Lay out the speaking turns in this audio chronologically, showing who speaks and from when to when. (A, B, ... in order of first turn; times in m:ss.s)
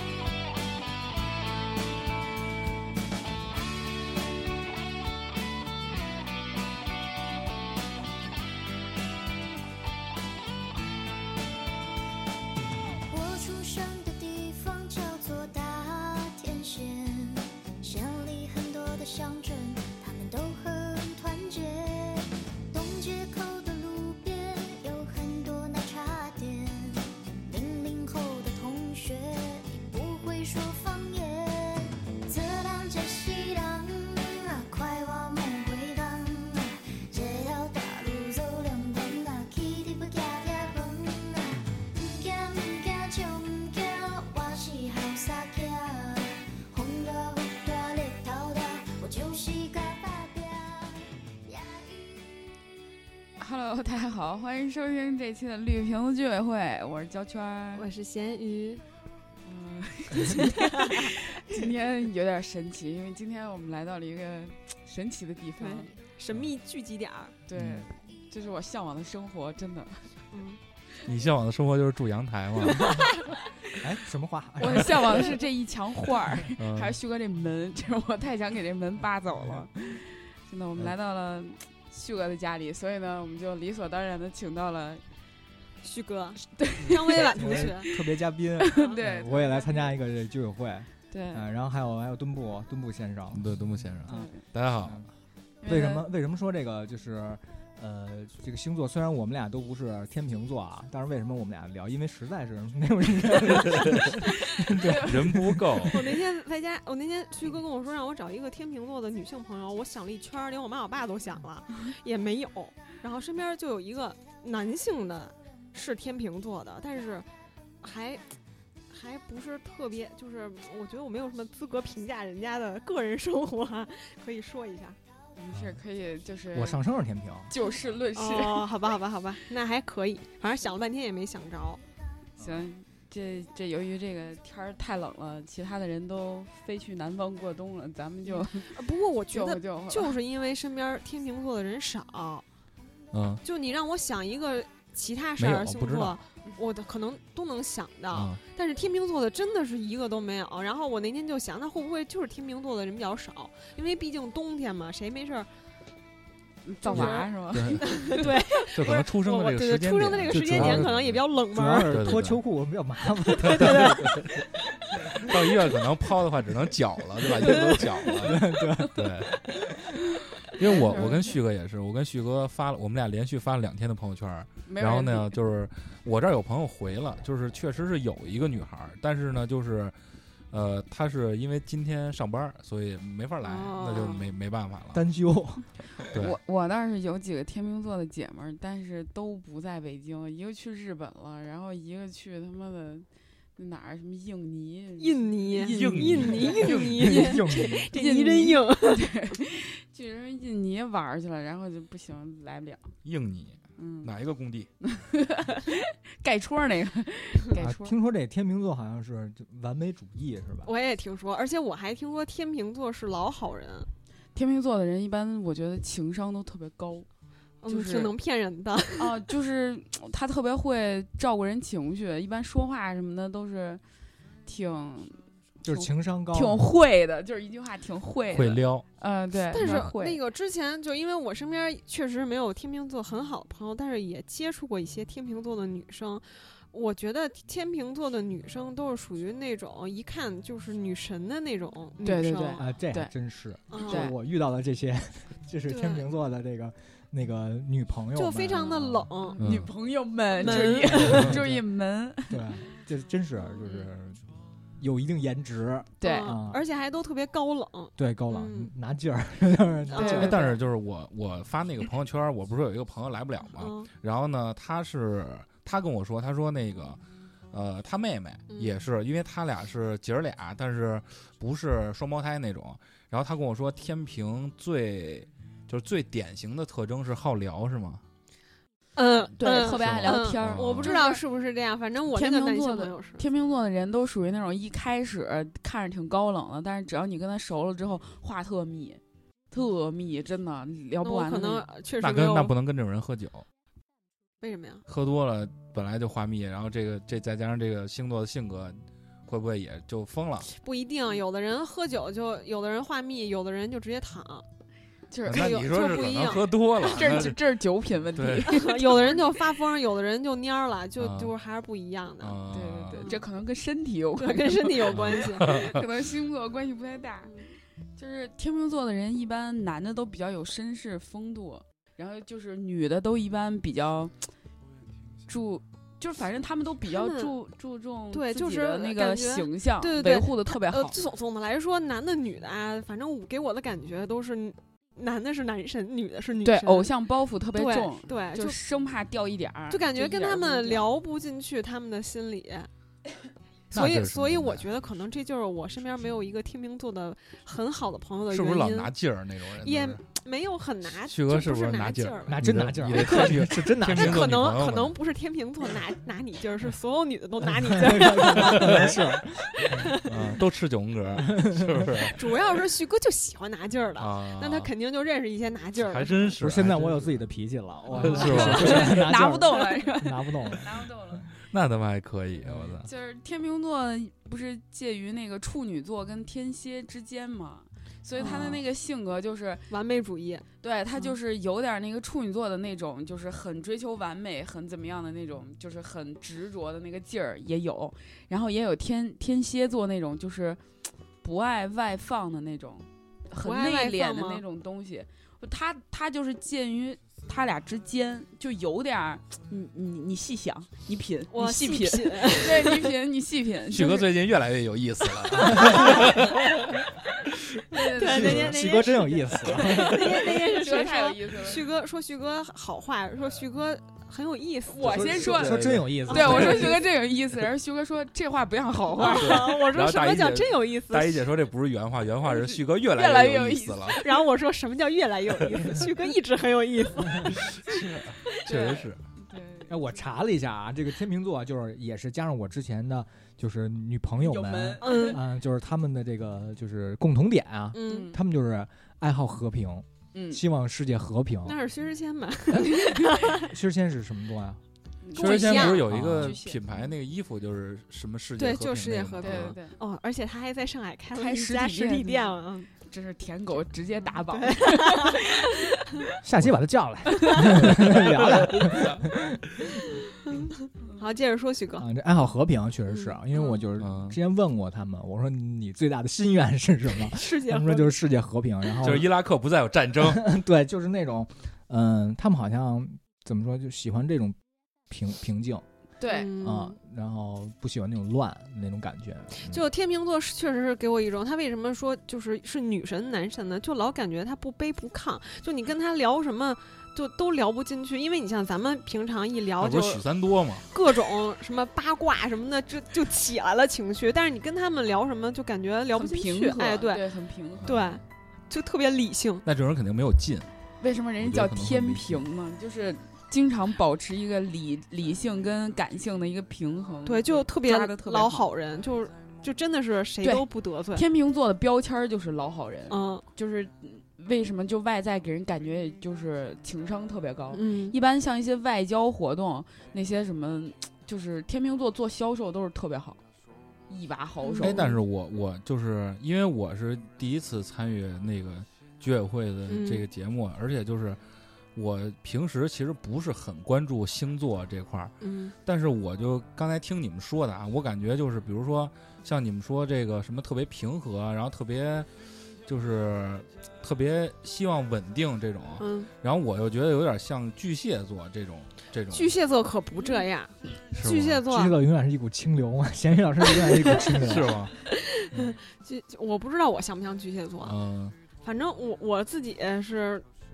0:13.0-0:52.5 A
0:53.4-0:57.9 B
0:57.8-0:58.8 C
0:59.4-1:05.9 B
1:00.3-1:01.6 C
1:05.6-1:07.4 C
1:07.5-1:10.0 B
1:10.3-1:10.6 C
1:11.0-1:12.9 D
1:13.8-1:15.4 E
1:14.6-1:25.0 B
1:16.6-1:17.0 D
1:25.8-1:27.9 C
1:26.6-1:27.7 B
1:26.8-1:34.3 E
1:28.7-1:29.6 B
1:31.1-1:31.5 B
1:33.3-1:35.0 D
1:34.1-1:34.4 B
1:34.8-1:35.1 E
1:35.6-1:36.0 B
1:35.7-1:46.0 E
1:43.8-1:44.1 D
1:44.9-1:46.1 D
1:45.9-1:57.3 C
1:57.8-1:58.2 C
1:58.9-2:05.0 C
2:05.4-2:06.8 B
2:06.5-2:07.5 E
2:07.5-2:08.7 B
2:08.1-2:11.8 C
2:12.4-2:18.7 B
2:18.3-2:22.4 C
2:19.3-2:20.1 B
2:23.1-2:23.4 D
2:23.4-2:35.5 C
2:25.4-2:26.2 D
2:28.1-2:28.4 D
2:36.6-2:38.7 B
2:36.8-2:37.3 C
2:36.9-2:41.2 D
2:37.8-2:41.9 C
2:40.3-2:44.4 E
2:41.9-2:42.4 D
2:43.4-2:44.0 C
2:43.5-2:44.3 D
2:45.0-2:45.5 E
2:45.1-2:49.3 D
2:47.2-2:49.9 E
2:50.4-2:51.4 B
2:50.6-3:00.0 D
2:54.7-2:55.3 B
3:00.5-3:05.0 D
3:03.4-3:04.3 C
3:04.9-3:05.6 E
3:06.1-3:06.4 D
3:06.1-3:16.8 B
3:15.0-3:19.1 C
3:15.6-3:16.8 D
3:16.3-3:18.0 E
3:18.0-3:22.9 B
3:23.0-3:24.7 D
3:23.8-3:24.1 B
3:24.8-3:27.9 B
3:27.5-3:30.7 E
3:30.6-3:33.9 C
3:34.4-3:37.1 B
3:37.6-3:39.2 C
3:37.7-3:38.1 B
3:39.0-3:43.8 B
3:44.5-3:45.2 B
3:45.6-3:46.7 E
3:45.7-3:50.2 B
3:48.3-3:48.8 D
3:49.5-4:02.6 C
4:02.0-4:03.1 B
4:02.6-4:09.2 E
4:03.7-4:04.1 C
4:03.8-4:04.2 B
4:05.7-4:06.1 C
4:08.2-4:09.4 C
4:09.2-4:12.5 B
4:09.4-4:09.7 D
4:10.4-4:11.4 C
4:10.5-4:11.6 E
4:12.3-4:14.2 E
4:13.5-4:13.9 C
4:14.8-4:16.6 E
4:16.0-4:16.4 B
4:16.0-4:18.7 C
4:18.0-4:20.5 E
4:19.9-4:20.6 C
4:20.0-4:20.3 B
4:20.0-4:27.0 D
4:23.6-4:23.9 C
4:27.5-4:38.0 D
4:39.0-4:43.2 C
4:39.4-4:41.2 B
4:39.7-4:41.0 D
4:42.1-4:49.0 B
4:49.5-4:51.6 B
4:51.0-4:52.5 C
4:52.0-4:53.4 D
4:54.4-4:54.8 C
4:54.9-5:00.5 D
5:00.5-5:04.4 C
5:05.1-5:05.7 B
5:05.3-5:07.4 D
5:05.3-5:07.3 C
5:06.9-5:09.4 B
5:08.2-5:08.6 D
5:08.5-5:12.4 C
5:11.0-5:11.3 D
5:12.2-5:13.1 D
5:12.5-5:17.4 B
5:14.2-5:15.6 C
5:14.9-5:15.8 D
5:18.0-5:24.1 B
5:25.3-5:31.0 B
5:26.9-5:27.3 C
5:28.1-5:36.9 C
5:36.4-5:40.9 B
5:37.5-5:38.6 C
5:39.7-5:42.7 C
5:43.7-5:48.9 C
5:43.7-5:44.7 D
5:48.3-5:50.0 D
5:49.6-5:59.0 C
5:51.0-5:55.0 D
5:52.3-5:54.5 E
5:57.4-6:00.0 E
5:58.3-5:58.9 D
5:59.6-6:00.1 C
5:59.9-6:02.2 D
6:01.3-6:02.1 E
6:02.1-6:06.4 C
6:04.0-6:04.7 D
6:05.8-6:07.2 D
6:06.4-6:10.7 E
6:07.9-6:09.0 D
6:08.0-6:11.3 B
6:11.5-6:12.9 D
6:12.8-6:19.6 B
6:18.2-6:18.6 C
6:19.7-6:20.5 C
6:20.6-6:30.6 B
6:31.2-6:44.1 B
6:33.4-6:34.4 C
6:41.3-6:42.9 C
6:43.7-6:46.6 D
6:45.5-6:45.8 B
6:45.5-6:45.9 C
6:47.7-6:48.7 B
6:47.8-6:56.8 C
6:48.0-6:50.2 E
6:49.6-6:51.6 B
6:54.7-6:59.6 B
6:54.8-6:56.8 E
6:55.5-6:55.9 D
6:59.0-7:01.3 C
6:59.1-7:04.1 D
7:02.3-7:04.1 B
7:03.9-7:07.4 C
7:07.5-7:09.0 D
7:08.3-7:09.8 B
7:09.7-7:21.6 E
7:14.2-7:15.2 B
7:14.8-7:15.2 C
7:17.7-7:18.2 C
7:17.8-7:18.2 B
7:20.1-7:20.4 B
7:21.4-7:23.5 C
7:22.5-7:24.6 E
7:25.0-7:26.6 B
7:25.2-7:25.9 C
7:25.2-7:29.6 D
7:25.9-7:26.4 E
7:28.4-7:32.7 C
7:29.2-7:29.8 B
7:31.1-7:36.1 B
7:34.1-7:35.3 C
7:36.2-7:39.9 E
7:37.9-7:38.9 D
7:40.3-7:41.9 C
7:41.8-7:49.1 E
7:42.9-7:43.6 C
7:43.8-7:44.2 D
7:47.0-7:48.0 C
7:48.8-7:50.3 D
7:50.0-7:54.4 E
7:54.9-7:55.6 E
7:56.0-7:56.3 B
7:56.0-7:56.8 C
7:56.3-7:59.7 E
7:59.5-8:10.0 C
8:09.6-8:10.6 D
8:10.7-8:17.1 C
8:15.9-8:17.7 B
8:17.6-8:18.0 D
8:17.6-8:19.4 C
8:19.4-8:20.5 D
8:20.8-8:28.5 B
8:21.2-8:22.2 D
8:27.0-8:31.1 C
8:30.2-8:43.2 B
8:32.9-8:33.2 C
8:37.5-8:38.0 C
8:43.9-8:44.8 B
8:44.4-8:45.0 C
8:44.6-8:51.2 D
8:49.7-8:50.1 C
8:51.8-8:55.2 D
8:55.2-8:55.5 C
8:55.7-9:02.1 D
9:02.7-9:09.3 D
9:05.8-9:06.1 C
9:09.1-9:11.8 C
9:10.9-9:11.4 D
9:11.5-9:14.7 E
9:14.3-9:14.7 D
9:15.4-9:17.8 C
9:17.6-9:18.2 D
9:18.4-9:20.3 C